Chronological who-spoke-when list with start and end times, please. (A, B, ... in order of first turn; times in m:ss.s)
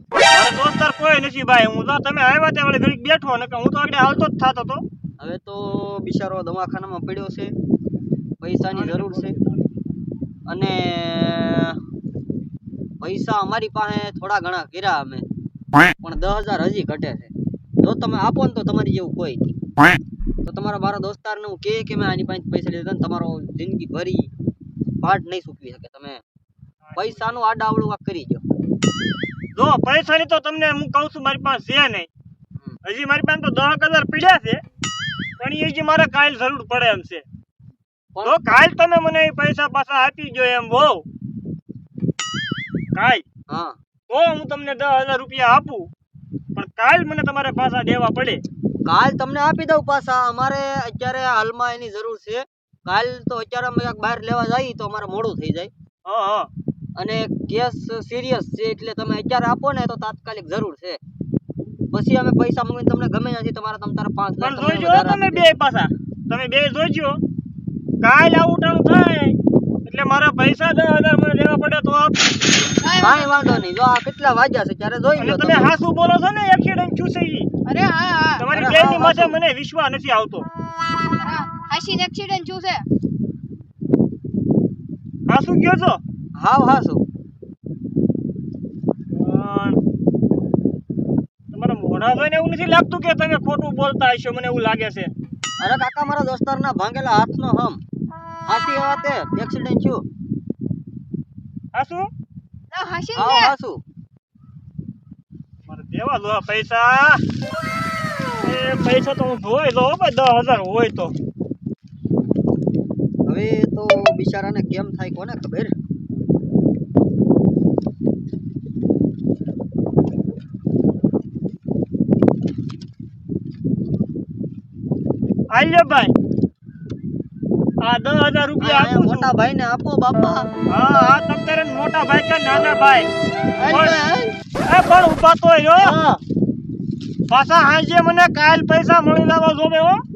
0:00.3-0:04.8 A
0:05.2-0:07.5 B
0:08.4-0:09.3 B
0:08.7-0:09.6 A
0:10.5-0:11.8 B
0:13.0-0:15.2 B
0:16.0-0:19.4 B
0:20.4-0:24.3 B
0:25.0-0:26.2 B
0:26.8-0:27.3 A
0:27.0-0:28.4 B
0:29.5-0:32.1 A
0:32.8-0:34.6 A
0:35.4-0:37.2 A
0:38.1-0:38.5 B
0:38.2-0:41.0 A
0:42.9-0:43.2 A
0:43.5-0:43.8 B
0:44.1-0:45.9 A
0:46.5-0:48.4 A
0:48.8-0:55.7 B
0:56.0-0:56.5 A
0:57.0-1:01.0 B
1:01.9-1:05.5 B
1:04.4-1:07.2 A
1:08.0-1:12.3 A
1:12.8-1:13.6 C
1:13.0-1:15.7 B
1:15.2-1:17.5 A
1:17.6-1:18.5 C
1:18.4-1:20.5 A
1:18.5-1:19.4 B
1:21.2-1:22.8 C
1:25.3-1:26.0 A
1:26.4-1:27.0 B
1:29.1-1:29.8 A
1:31.5-1:35.1 A
1:35.6-1:37.8 B
1:38.5-1:40.0 B
1:41.7-1:42.1 A
1:42.7-1:43.5 C
1:43.1-1:43.8 B
1:45.6-1:47.2 A
1:48.4-1:51.1 A
1:53.2-1:55.7 B
2:05.5-2:06.1 A
2:07.8-2:09.3 A
2:08.6-2:10.5 B
2:10.7-2:13.1 A
2:13.6-2:14.3 B
2:13.7-2:14.0 A
2:14.6-2:16.0 A
2:15.8-2:16.2 B
2:17.3-2:20.0 A